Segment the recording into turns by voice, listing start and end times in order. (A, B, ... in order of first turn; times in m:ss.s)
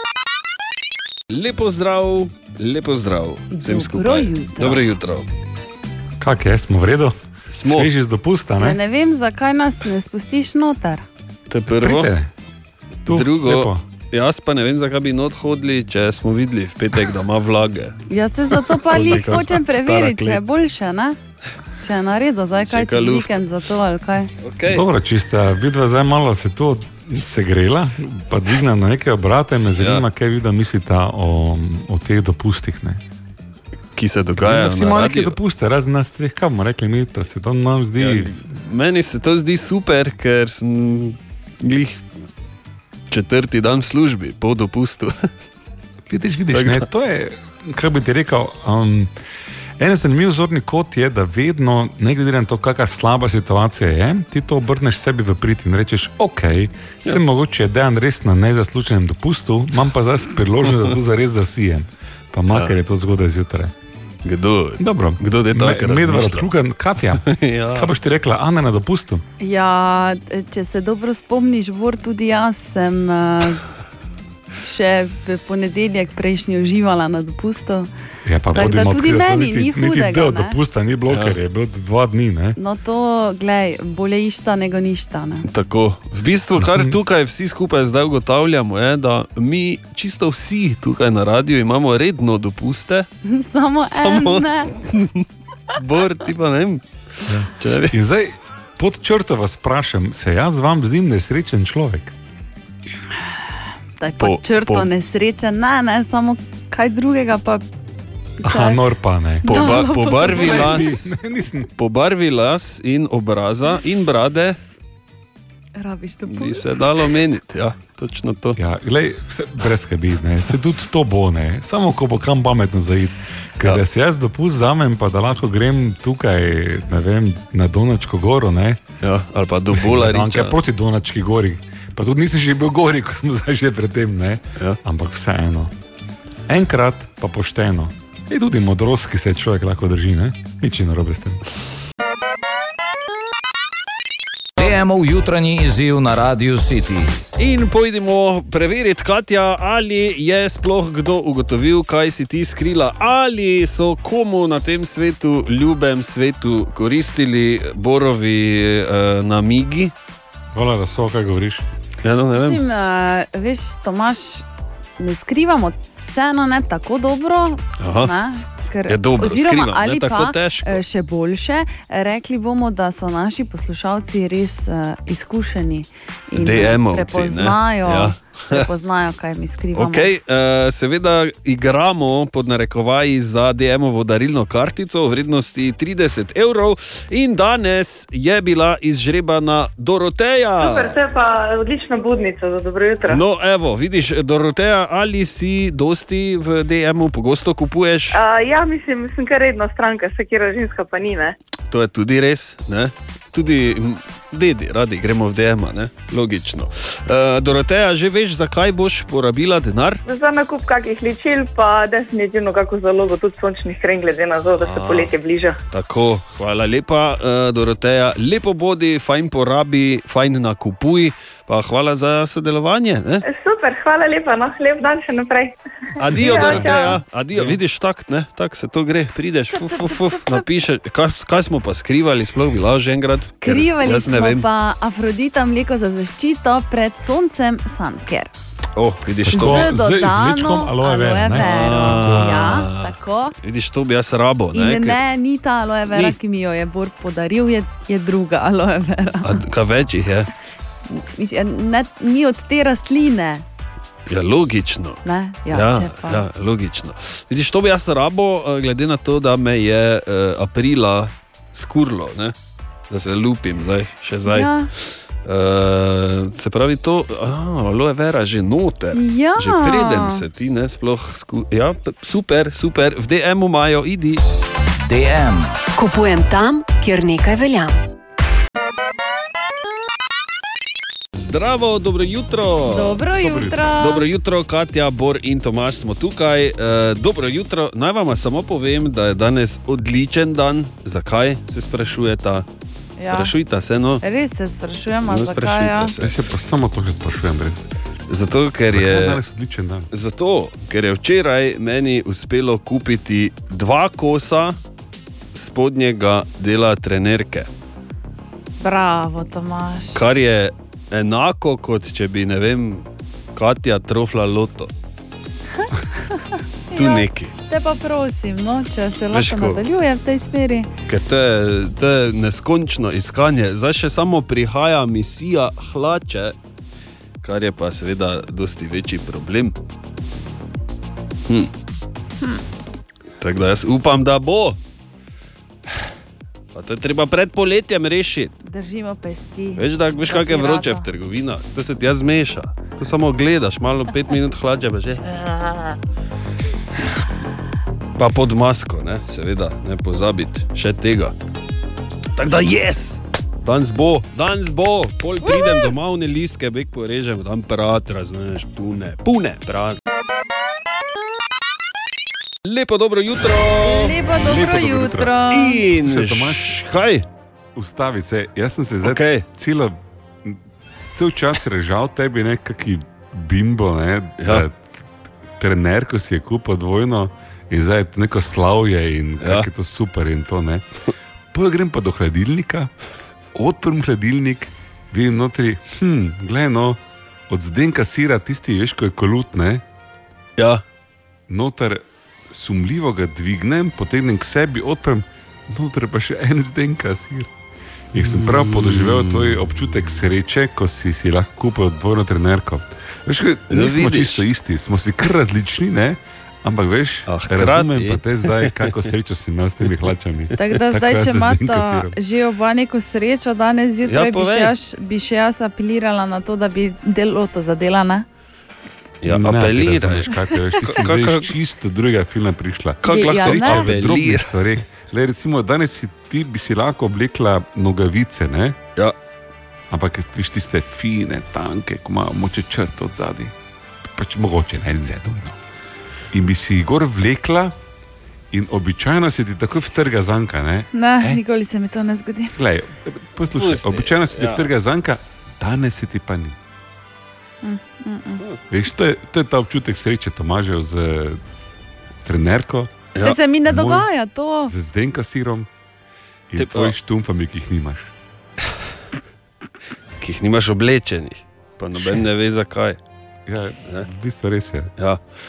0:01.3-0:05.3 A
0:03.5-0:04.8 B
0:06.2-0:08.8 C
0:07.5-0:07.9 A
0:08.6-0:11.0 B
0:11.5-0:12.1 A
0:11.7-0:12.3 C
0:13.0-0:13.8 C
0:13.1-0:17.9 A
0:18.1-0:21.2 B
0:18.7-0:20.4 A
0:18.9-0:19.6 C
0:21.8-0:24.3 B
0:22.6-0:23.4 A
0:24.4-0:24.8 A
0:24.7-0:33.0 C
0:29.8-0:30.0 A
0:34.0-0:35.3 A
0:34.4-0:38.3 C
0:38.0-0:42.0 A
0:43.1-0:45.1 A
0:46.1-0:49.1 C
0:46.5-0:46.8 A
0:49.8-1:03.7 C
1:04.2-1:06.5 A
1:04.8-1:09.2 C
1:07.2-1:07.9 A
1:09.4-1:13.6 B
1:14.6-1:17.9 B
1:18.2-1:22.6 C
1:18.5-1:20.6 B
1:21.1-1:21.4 A
1:22.6-1:25.5 B
1:25.4-1:33.1 A
1:26.6-1:27.0 C
1:33.2-1:34.7 B
1:33.8-1:36.8 A
1:37.3-1:42.1 C
1:37.5-1:38.0 A
1:44.0-1:47.6 B
1:44.2-1:44.9 A
1:48.4-1:48.8 B
1:48.4-1:51.7 C
1:49.4-1:51.0 B
1:49.4-1:51.1 A
1:51.8-1:54.6 A
1:55.8-1:56.9 B
1:56.3-1:58.6 A
1:58.6-2:08.8 C
2:09.0-2:10.5 A
2:09.7-2:15.7 C
2:16.5-2:21.4 C
2:24.6-2:27.2 D
2:27.4-2:39.9 A
2:40.5-2:41.6 C
2:42.0-2:42.6 A
2:42.3-2:44.4 B
2:45.0-3:00.1 B
2:47.8-2:48.1 A
2:48.9-2:50.8 A
2:56.4-2:58.7 A
2:59.7-3:11.0 A
3:10.6-3:13.2 E
3:13.1-3:18.2 A
3:18.1-3:21.4 E
3:21.7-3:30.0 A
3:30.0-3:35.6 E
3:34.6-3:35.1 A
3:35.7-3:43.2 A
3:43.2-3:45.5 E
3:46.0-3:54.4 A
3:46.1-3:46.8 C
3:46.1-3:47.0 E
3:47.3-3:47.6 C
3:49.5-3:50.5 B
3:53.1-3:58.3 B
3:58.8-3:59.7 A
3:59.2-4:02.6 C
3:59.3-4:03.3 B
4:01.3-4:05.0 A
4:04.5-4:09.4 B
4:05.9-4:06.2 A
4:09.2-4:10.3 A
4:10.9-4:13.4 B
4:14.1-4:22.3 A
4:15.0-4:16.3 B
4:22.9-4:34.2 A
4:24.2-4:24.7 B
4:28.9-4:30.2 B
4:34.8-4:35.5 D
4:35.8-4:37.8 F
4:41.1-4:43.0 A
4:42.7-4:44.0 B
4:43.2-4:43.6 C
4:43.8-4:52.4 A
4:53.0-4:53.3 B
4:53.0-4:54.0 A
4:54.0-4:55.9 B
4:55.1-4:56.1 A
4:56.0-4:57.7 C
4:58.1-4:59.2 A
4:58.7-4:59.9 C
4:59.9-5:04.6 A
5:05.3-5:07.5 A
5:08.6-5:10.0 B
5:09.9-5:14.7 A
5:16.7-5:20.7 B
5:16.7-5:17.3 A
5:19.1-5:19.6 A
5:20.9-5:26.3 A
5:27.2-5:29.5 A
5:33.2-5:34.6 A
5:36.5-5:38.3 A
5:38.4-5:40.9 B
5:39.6-5:45.5 A
5:48.0-5:51.1 A
5:52.2-5:59.8 A
5:55.2-5:55.6 B
6:02.4-6:04.0 A
6:03.6-6:05.6 B
6:04.1-6:05.2 C
6:05.3-6:07.0 A
6:05.7-6:06.6 C
6:07.5-6:10.4 C
6:08.8-6:09.2 A
6:10.9-6:14.8 C
6:14.2-6:14.4 A
6:15.4-6:20.6 C
6:19.2-6:19.5 A
6:21.3-6:22.7 C
6:23.3-6:29.6 C
6:30.4-6:30.6 A
6:31.3-6:37.3 C
6:37.9-6:51.9 C
6:38.0-6:39.3 A
6:43.5-6:44.2 A
6:47.1-6:48.6 A
6:50.4-6:58.0 B
6:53.8-6:54.5 A
6:59.0-7:01.3 A
6:59.0-7:08.6 C
7:02.8-7:03.7 B
7:02.8-7:04.3 A
7:09.7-7:13.3 C
7:13.9-7:15.4 C
7:16.1-7:17.5 C
7:18.3-7:21.2 C
7:20.7-7:22.3 B
7:22.4-7:26.4 C
7:23.4-7:24.5 A
7:27.4-7:28.2 B
7:28.5-7:31.2 C
7:32.0-7:32.7 C
7:33.0-7:34.5 B
7:33.4-7:33.9 C
7:34.4-7:35.5 C
7:36.3-7:37.9 C
7:36.4-7:36.7 A
7:40.0-7:42.8 A
7:41.7-7:42.1 C
7:43.3-7:44.7 C